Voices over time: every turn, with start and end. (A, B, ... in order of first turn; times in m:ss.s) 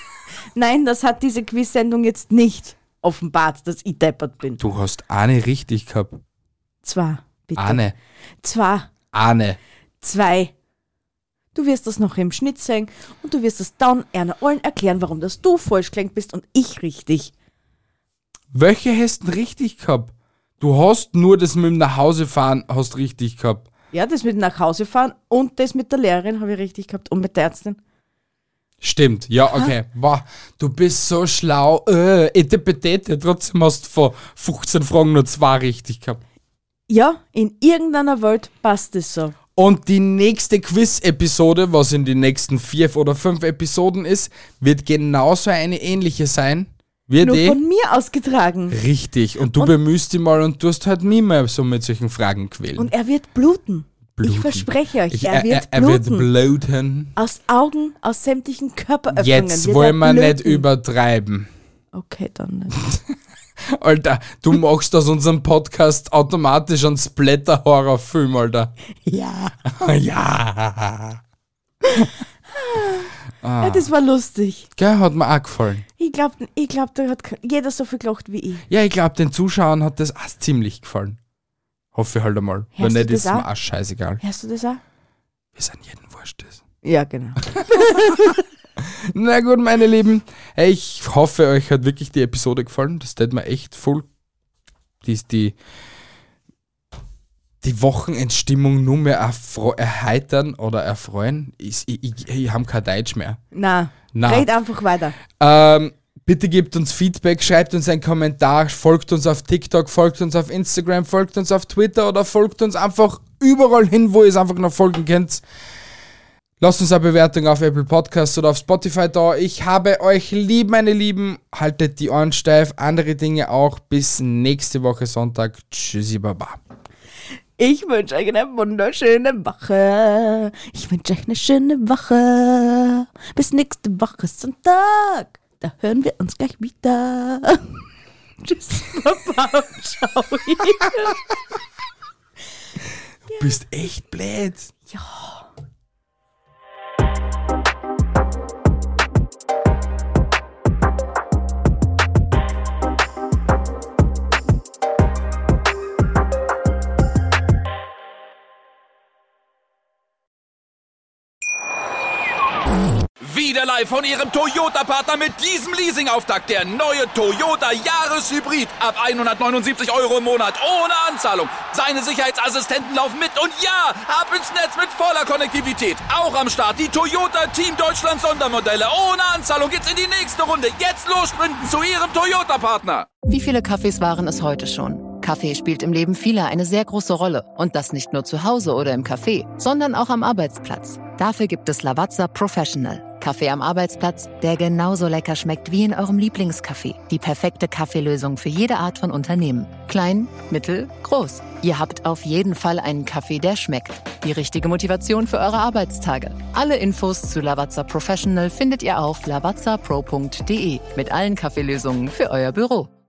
0:00.5-0:04.6 A
0:04.6-0:06.2 B
0:06.8-0:07.8 A
0:07.6-0:08.0 B
0:08.4-0:08.9 A
0:09.1-0:09.6 B
0:10.0-0:10.5 A
0:11.5-0:17.3 A
0:18.5-0:23.7 B
0:23.9-0:27.8 A
0:28.8-0:36.2 B
0:36.9-0:39.4 A
0:39.6-0:47.6 B
0:47.2-0:48.8 A
0:48.7-0:52.9 B
0:52.8-0:56.3 A
0:54.2-0:57.2 B
0:57.2-1:00.6 A
0:59.1-1:01.5 B
1:01.9-1:02.8 A
1:03.7-1:08.7 B
1:09.1-1:09.6 A
1:09.6-1:11.2 B
1:11.8-1:14.7 A
1:13.4-1:13.9 B
1:14.8-1:15.8 B
1:16.0-1:18.6 A
1:18.7-1:21.2 B
1:21.9-1:24.2 B
1:22.8-1:23.5 A
1:24.2-1:24.8 A
1:25.6-1:26.6 B
1:26.8-1:28.4 A
1:27.8-1:28.2 B
1:28.8-1:34.1 B
1:35.0-1:35.6 B
1:37.6-1:43.4 B
1:43.5-1:45.2 A
1:44.1-1:44.5 B
1:45.4-1:55.4 B
1:56.6-2:06.6 B
2:07.6-2:17.8 A
2:18.4-2:21.2 A
2:23.3-2:24.7 B
2:24.9-2:25.5 A
2:43.2-3:03.1 C
3:03.3-3:32.9 D